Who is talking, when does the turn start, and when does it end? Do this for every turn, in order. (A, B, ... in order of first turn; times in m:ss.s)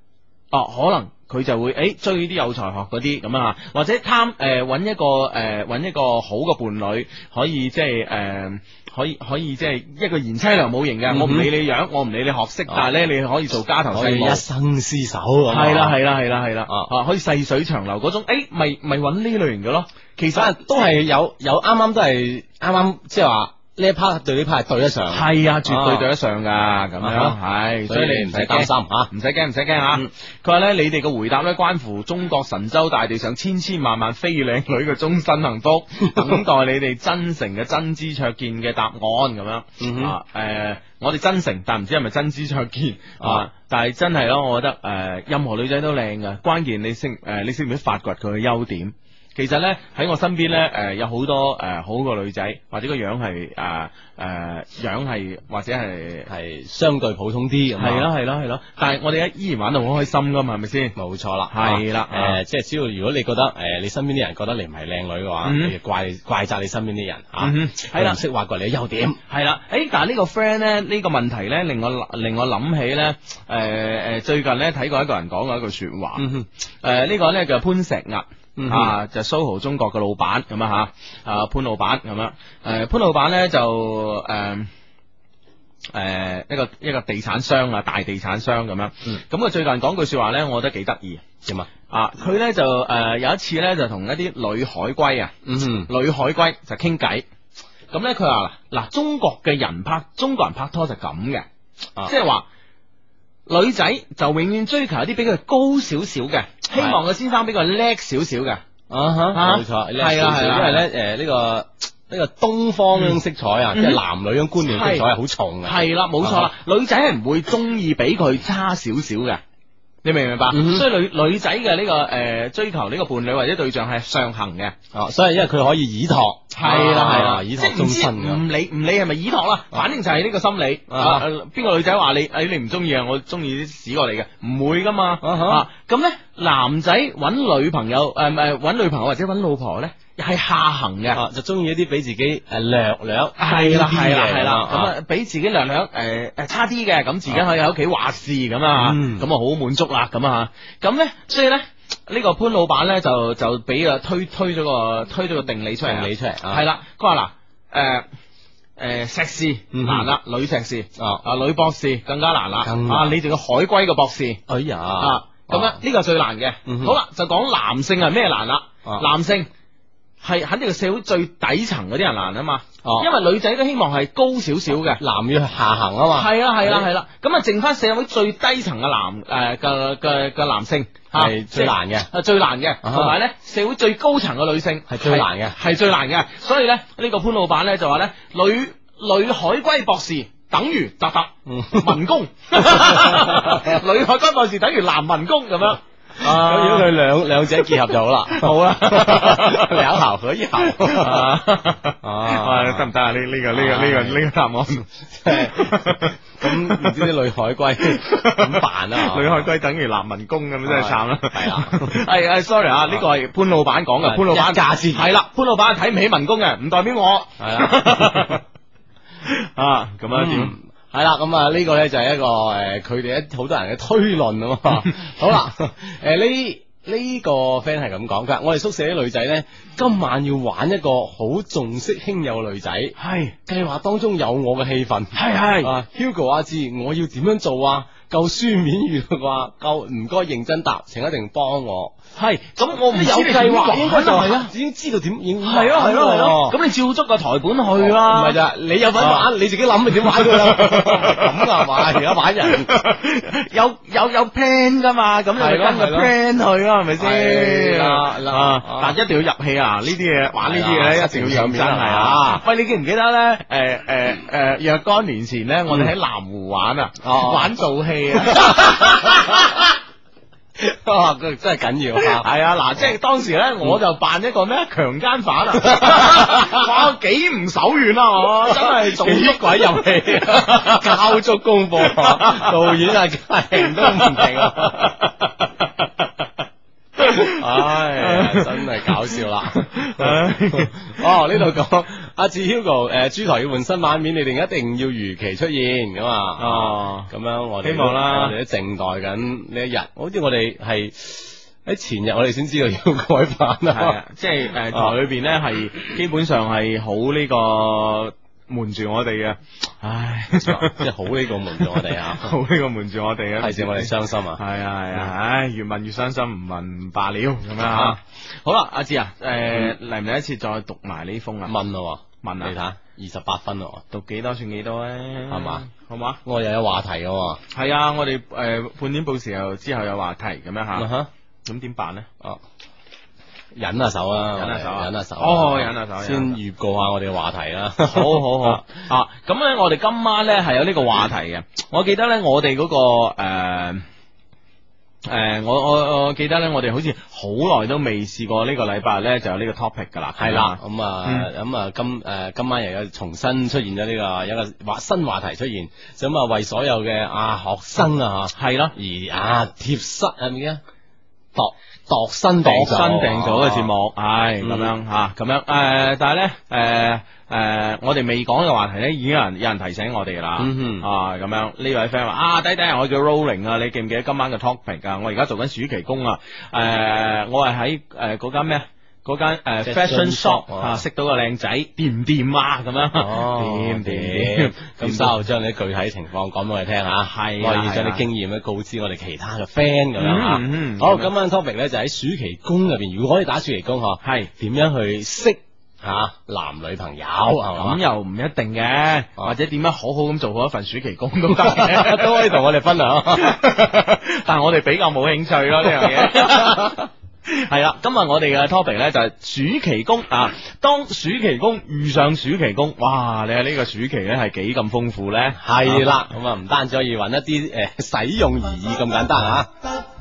0:00.5-0:14.4 A
0:11.1-0:11.5 B
0:13.9-0:16.0 B
0:15.5-0:20.6 A
0:20.3-0:26.1 B
0:25.1-0:56.3 A
0:27.0-0:29.1 B
0:36.1-0:36.4 B
0:39.8-0:40.1 B
0:56.3-0:58.1 B
0:57.8-1:01.0 A
1:01.0-1:09.2 B
1:01.5-1:02.4 A
1:05.4-1:05.7 A
1:07.4-1:08.2 A
1:09.3-1:16.2 A
1:16.2-1:16.5 B
1:16.8-1:24.7 A
1:18.6-1:19.0 B
1:25.9-1:31.2 A
1:31.4-1:31.7 B
1:31.9-1:35.3 A
1:35.4-1:35.9 B
1:35.9-1:37.2 A
1:37.9-1:41.5 A
1:42.0-1:42.5 A
1:43.5-1:48.6 A
1:46.8-1:47.0 B
1:48.9-1:56.5 B
1:49.3-1:50.8 A
1:53.8-1:54.0 A
1:54.7-1:55.1 A
1:55.6-1:59.4 A
2:00.0-2:04.8 A
2:00.5-2:00.8 B
2:04.9-2:08.4 B
2:06.5-2:21.2 A
2:10.9-2:11.2 B
2:15.2-2:15.6 B
2:21.1-2:24.9 B
2:23.4-2:38.0 A
2:28.7-2:29.3 B
2:35.8-2:36.6 B
2:38.8-2:44.4 A
2:39.7-2:40.1 B
2:41.0-2:41.2 B
2:42.6-2:43.2 B
2:44.5-2:45.8 B
2:45.0-2:49.5 A
2:46.7-2:47.0 B
2:50.2-2:55.0 A
2:52.8-2:53.1 B
2:55.0-2:56.9 B
2:56.1-3:16.9 A
3:01.1-3:02.1 B
3:02.8-3:03.2 B
3:04.9-3:05.6 B
3:11.5-3:12.0 B
3:12.6-3:13.7 B
3:16.2-3:21.4 B
3:18.3-3:19.9 A
3:20.6-3:26.9 A
3:22.0-3:22.9 B
3:23.5-3:24.2 B
3:25.2-3:29.5 B
3:27.9-3:38.4 A
3:30.6-3:32.0 B
3:34.0-3:35.1 B
3:37.4-3:38.4 B
3:39.3-3:40.5 A
3:40.1-4:02.0 B
3:53.0-3:53.4 A
3:55.1-3:55.7 A
4:02.2-4:04.5 A
4:02.9-4:06.6 B
4:05.4-4:08.4 A
4:07.8-4:12.7 B
4:09.0-4:09.3 A
4:10.0-4:11.8 A
4:12.5-4:29.5 A
4:15.4-4:16.1 B
4:17.0-4:19.0 B
4:20.4-4:22.4 B
4:27.0-4:27.5 B
4:28.2-4:29.7 B
4:30.6-4:32.3 B
4:32.0-4:41.2 A
4:35.6-4:36.7 B
4:38.4-4:44.9 B
4:41.8-4:42.8 A
4:43.6-4:45.7 A
4:47.0-4:50.8 A
4:47.2-5:04.0 B
4:56.4-4:57.1 A
4:57.6-4:58.4 A
5:03.7-5:10.8 A
5:04.7-5:05.0 B
5:10.4-5:12.3 B
5:12.2-5:21.5 A
5:13.4-5:14.4 B
5:17.6-5:18.0 B
5:19.5-5:19.8 B
5:21.5-5:23.8 B
5:22.2-5:22.5 A
5:23.9-5:26.2 A
5:25.3-5:25.6 B
5:26.2-5:27.4 B
5:27.5-5:30.9 A
5:30.7-5:31.1 B
5:31.4-5:32.1 A
5:33.5-5:38.6 B
5:34.4-5:36.4 A
5:37.8-5:43.8 A
5:45.0-5:51.3 A
5:50.2-6:00.6 B
5:58.4-5:58.7 A
6:01.3-6:03.7 B
6:02.4-6:25.2 A
6:04.4-6:04.7 B
6:10.4-6:10.9 B
6:19.6-6:20.8 B
6:23.0-6:37.8 B
6:27.0-6:28.0 A
6:30.0-6:31.1 A
6:34.0-6:34.3 A
6:37.6-6:42.2 A
6:41.3-6:43.4 B
6:43.2-6:55.9 A
6:45.6-6:46.8 B
6:55.4-6:59.5 B